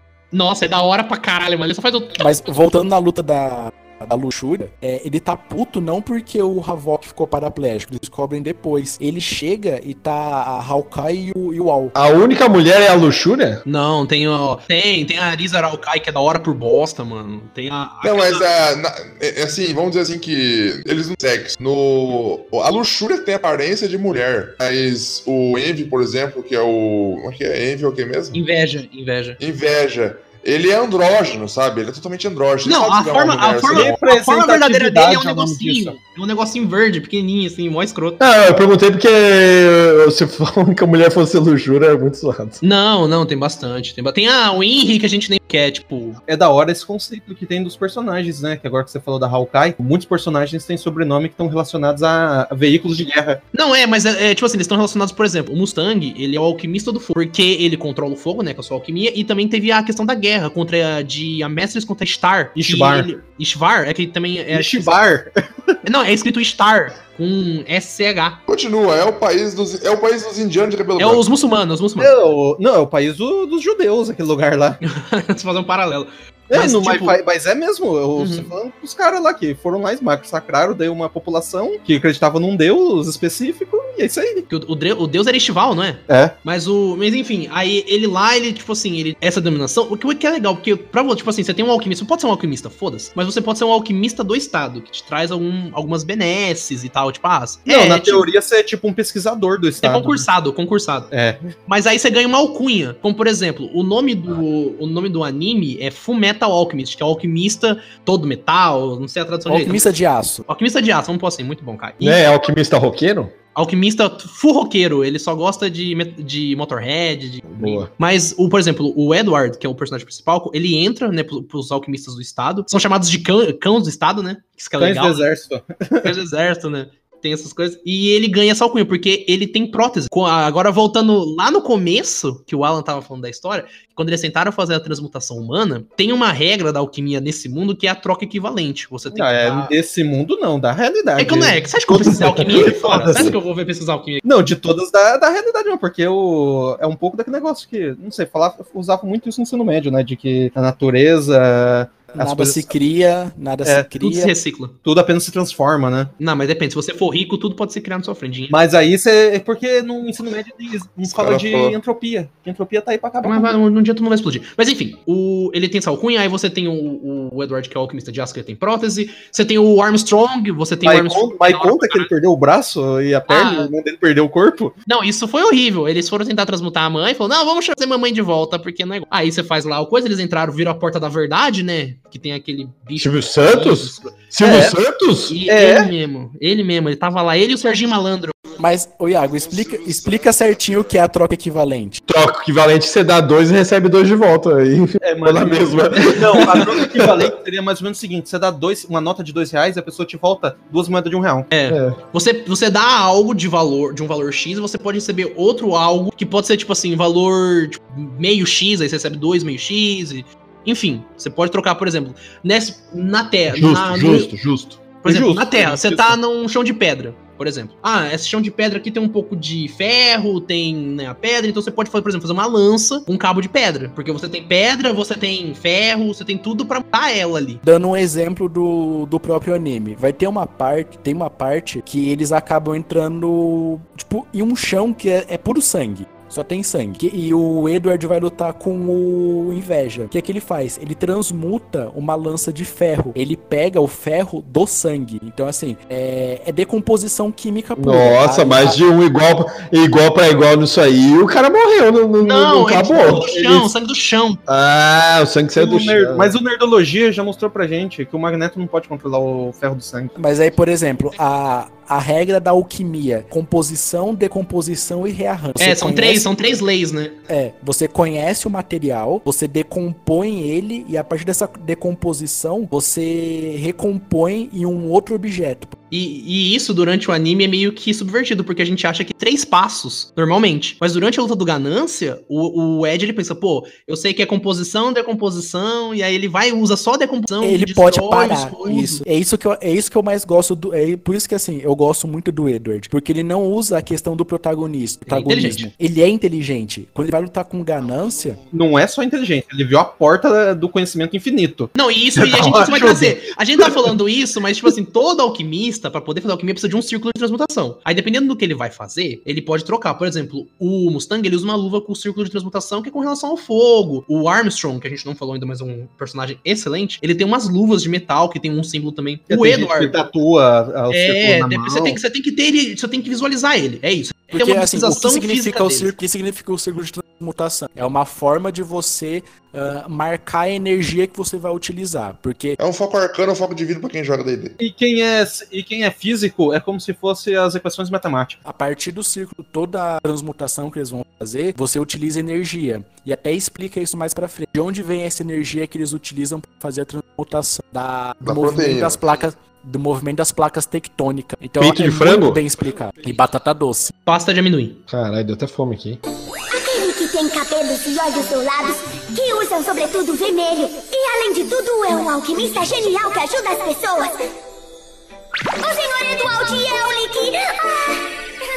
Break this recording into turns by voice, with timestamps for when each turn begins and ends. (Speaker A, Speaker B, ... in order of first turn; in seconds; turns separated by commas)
Speaker A: 0.3-2.2, Speaker B: 2.2-11.9, Speaker C: 11.9-13.6, Speaker A: 13.7-18.4, Speaker D: 18.0-28.4, Speaker A: 28.3-29.4, Speaker D: 29.4-34.0, Speaker A: 32.6-38.2, Speaker E: 33.7-36.0, Speaker C: 38.2-42.6, Speaker A: 42.6-46.2, Speaker E: 46.2-53.4, Speaker A: 53.5-65.0, Speaker E: 62.5-63.1, Speaker E: 64.5-65.8, Speaker A: 65.8-68.4, Speaker D: 68.5-71.2, Speaker A: 71.0-72.1, Speaker E: 72.0-74.8, Speaker A: 74.8-77.2, Speaker E: 76.5-84.5, Speaker A: 78.2-78.5, Speaker A: 84.5-98.3, Speaker E: 86.1-86.3, Speaker E: 97.7-100.2, Speaker A: 99.8-101.1, Speaker E: 101.1-101.4, Speaker A: 101.7-109.9, Speaker B: 109.5-110.4, Speaker A: 110.5-112.2, Speaker C: 112.0-113.3, Speaker A: 113.5-125.2, Speaker C: 117.5-117.9, Speaker E: 124.8-126.1, Speaker A: 126.0-139.7, Speaker E: 139.1-143.3, Speaker A: 141.2-144.2, Speaker E: 144.2-152.7, Speaker B: 152.1-154.3, Speaker A: 154.0-154.8, Speaker E: 154.8-156.1, Speaker A: 156.2-158.5, Speaker E: 158.5-163.6, Speaker D: 161.1-161.8, Speaker A: 163.2-172.1, Speaker E: 170.8-174.7, Speaker A: 173.3-173.7, Speaker A: 174.9-184.2, Speaker C: 182.9-185.4, Speaker E: 184.4-184.8, Speaker A: 185.3-188.3, Speaker E: 185.4-185.9, Speaker B: 188.6-192.0, Speaker D: 189.3-190.6, Speaker C: 192.1-197.3, Speaker E: 195.0-201.5, Speaker A: 201.5-214.3, Speaker C: 201.7-202.0, Speaker C: 213.5-215.0, Speaker A: 215.0-227.6, Speaker E: 215.0-216.2, Speaker B: 227.6-248.8, Speaker C: 247.8-253.7, Speaker A: 252.2-254.4, Speaker C: 254.5-256.3, Speaker E: 255.5-260.1, Speaker B: 260.1-266.3, Speaker A: 265.6-267.2, Speaker B: 267.3-275.7, Speaker A: 275.9-289.0, Speaker B: 287.4-298.4, Speaker A: 295.1-295.7, Speaker E: 298.5-303.9, Speaker A: 301.7-320.0, Speaker E: 319.3-322.0, Speaker A: 320.9-325.9, Speaker B: 324.3-332.6, Speaker D: 332.6-334.6, Speaker E: 334.6-338.4, Speaker B: 338.4-353.9, Speaker D: 348.2-349.0, Speaker C: 351.6-352.4, Speaker A: 354.1-354.8, Speaker C: 354.9-356.0, Speaker F: 356.5-364.1, Speaker F: 365.6-368.1